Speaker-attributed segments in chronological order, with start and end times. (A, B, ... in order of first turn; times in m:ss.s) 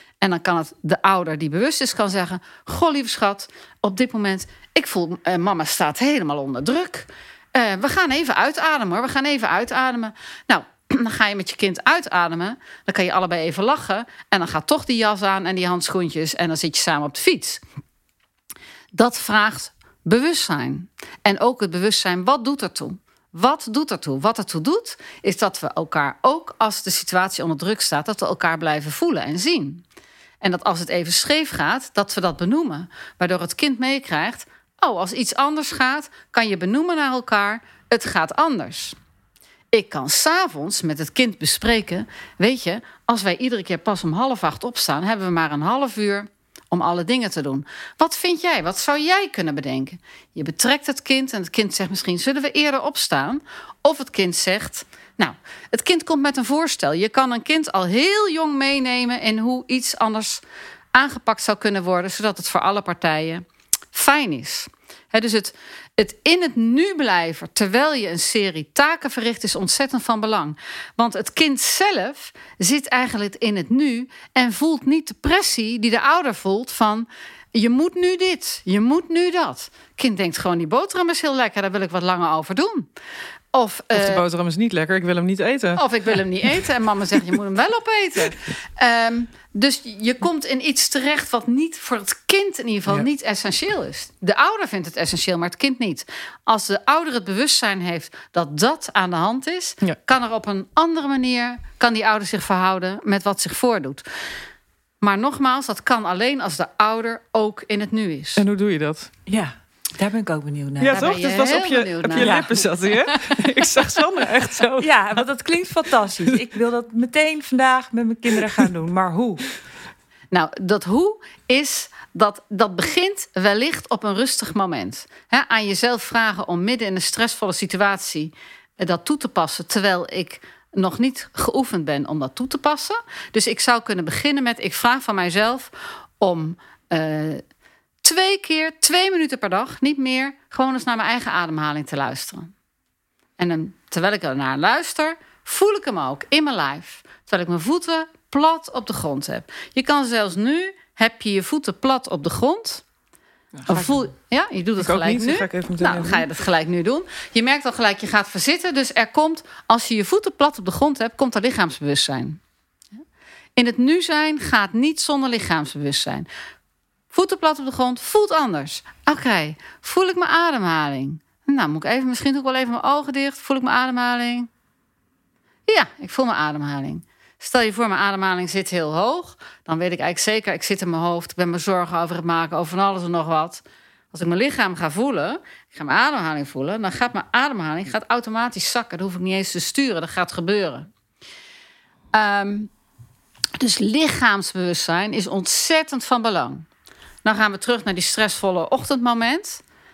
0:00.2-0:17.6 A
0:18.9-0:29.8 A
0:30.4-0:39.0 A
0:39.7-1:00.4 A
1:00.9-1:22.9 A
1:23.5-1:24.2 A
1:23.9-1:25.8 B
1:25.8-1:44.0 A
1:45.0-1:48.4 A
1:48.4-1:49.1 B
1:49.3-1:51.2 C
1:50.8-1:55.3 B
1:50.9-1:53.2 A
1:52.2-1:52.5 C
1:54.8-1:59.4 C
2:00.3-2:17.4 A
2:18.0-2:22.5 A
2:23.4-2:32.8 A
2:33.7-2:42.4 A
2:34.8-2:36.2 B
2:43.6-2:46.3 A
2:47.1-2:54.5 A
2:55.7-3:10.9 A
3:12.1-3:12.7 A
3:13.6-3:16.7 A
3:17.2-3:19.6 A